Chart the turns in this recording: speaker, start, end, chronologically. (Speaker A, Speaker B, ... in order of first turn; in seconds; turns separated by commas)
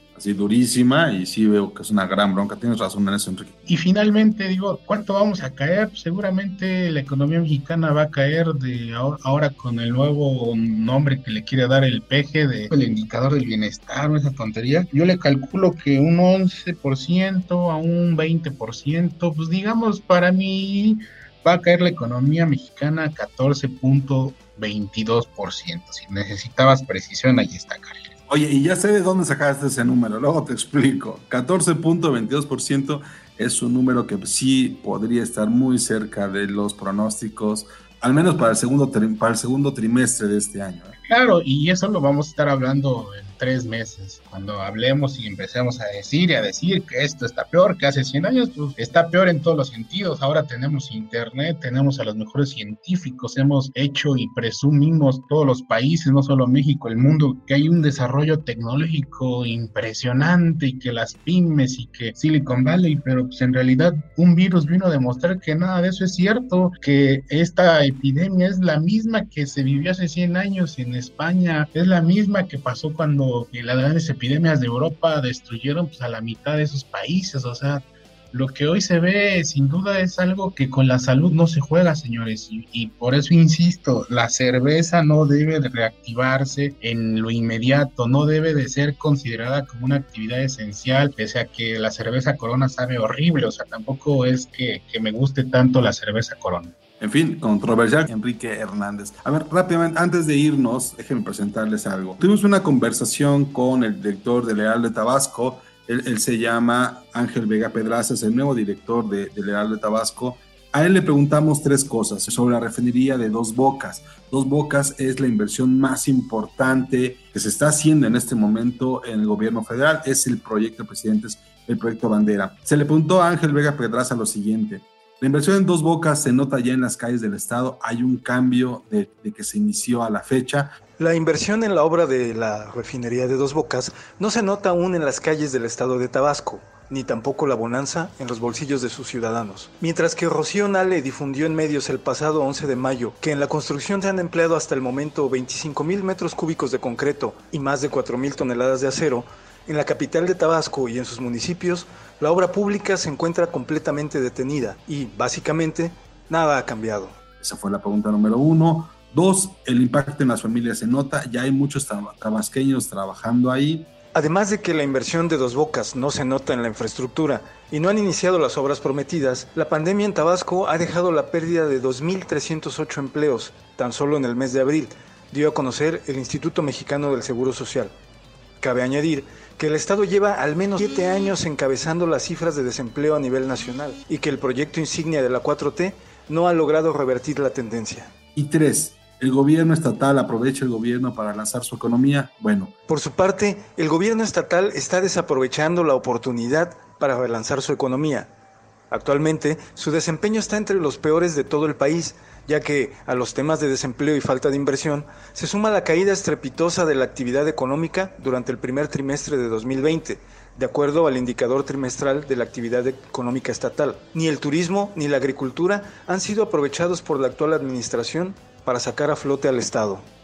Speaker A: 0.1-3.6, Speaker B: 3.7-28.1, Speaker A: 28.3-41.0, Speaker B: 41.0-96.7, Speaker A: 97.0-130.8, Speaker C: 131.0-157.2, Speaker A: 157.4-163.9, Speaker C: 164.1-177.9, Speaker C: 178.6-188.1, Speaker A: 188.3-192.7, Speaker C: 192.9-198.3, Speaker C: 198.9-220.0